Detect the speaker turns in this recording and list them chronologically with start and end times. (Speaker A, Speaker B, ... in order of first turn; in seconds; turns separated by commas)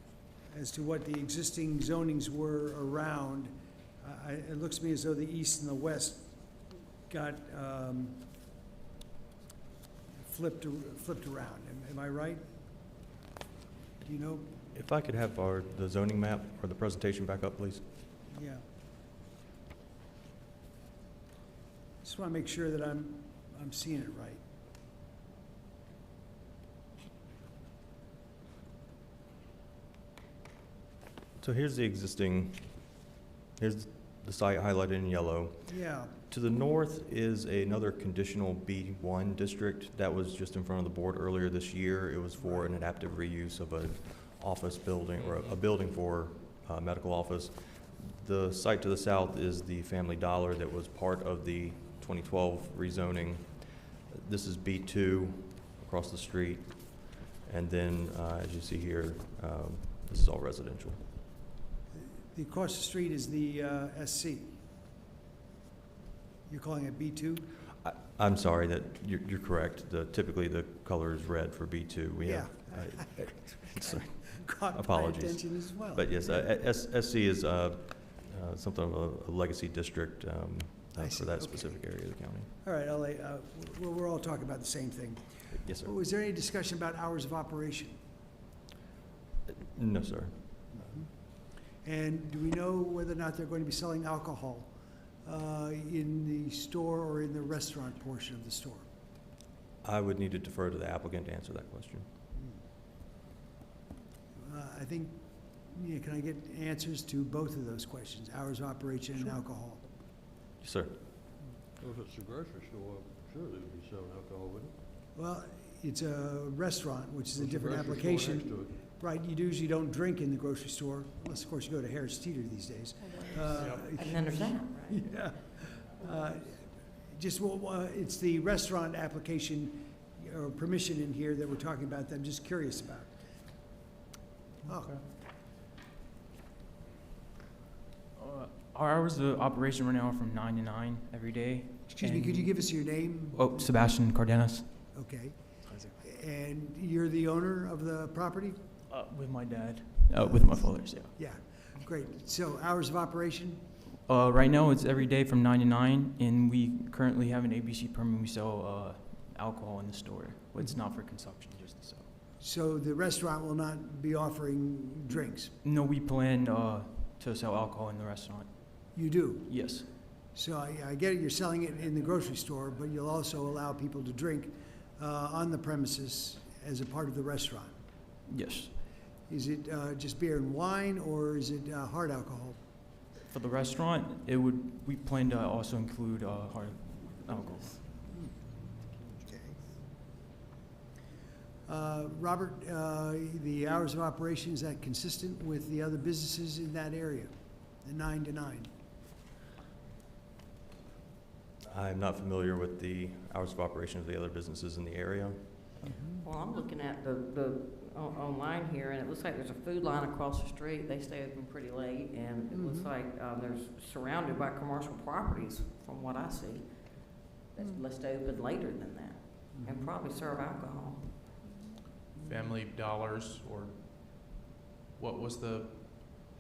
Speaker A: 0.5-6.3, Speaker A: 7.1-8.2, Speaker A: 10.2-12.4, Speaker A: 14.0-14.5, Speaker B: 14.7-17.9, Speaker A: 18.3-18.6, Speaker A: 22.0-24.4, Speaker B: 31.4-32.9, Speaker B: 33.6-61.0, Speaker A: 35.7-36.1, Speaker A: 42.4-42.7, Speaker A: 62.0-64.6, Speaker A: 66.5-67.5, Speaker B: 67.8-82.5, Speaker A: 72.2-76.5, Speaker A: 81.0-81.8, Speaker A: 82.6-88.0, Speaker B: 85.5-85.9, Speaker B: 89.5-90.9, Speaker A: 90.7-91.1, Speaker A: 91.8-94.7, Speaker A: 95.2-98.9, Speaker B: 99.8-102.1, Speaker A: 104.4-109.8, Speaker B: 110.6-111.0, Speaker C: 111.8-114.7, Speaker A: 115.2-126.6, Speaker C: 117.4-118.8, Speaker D: 123.7-125.1, Speaker A: 127.1-133.1, Speaker A: 134.7-135.0, Speaker E: 138.2-144.7, Speaker A: 141.9-143.7, Speaker A: 144.9-145.4, Speaker A: 146.0-148.6, Speaker E: 148.9-151.1, Speaker A: 150.1-153.6, Speaker E: 154.1-162.1, Speaker A: 162.4-165.5, Speaker E: 165.6-169.9, Speaker A: 168.9-169.6, Speaker A: 170.3-177.8, Speaker E: 178.3-178.7, Speaker A: 179.3-182.6, Speaker E: 183.3-188.0, Speaker A: 189.3-189.5, Speaker A: 191.7-198.7, Speaker B: 201.7-205.8, Speaker A: 205.8-206.3, Speaker D: 206.2-221.2, Speaker A: 212.5-212.9, Speaker A: 219.5-219.9, Speaker A: 222.2-222.5, Speaker F: 222.3-223.7, Speaker F: 225.0-226.2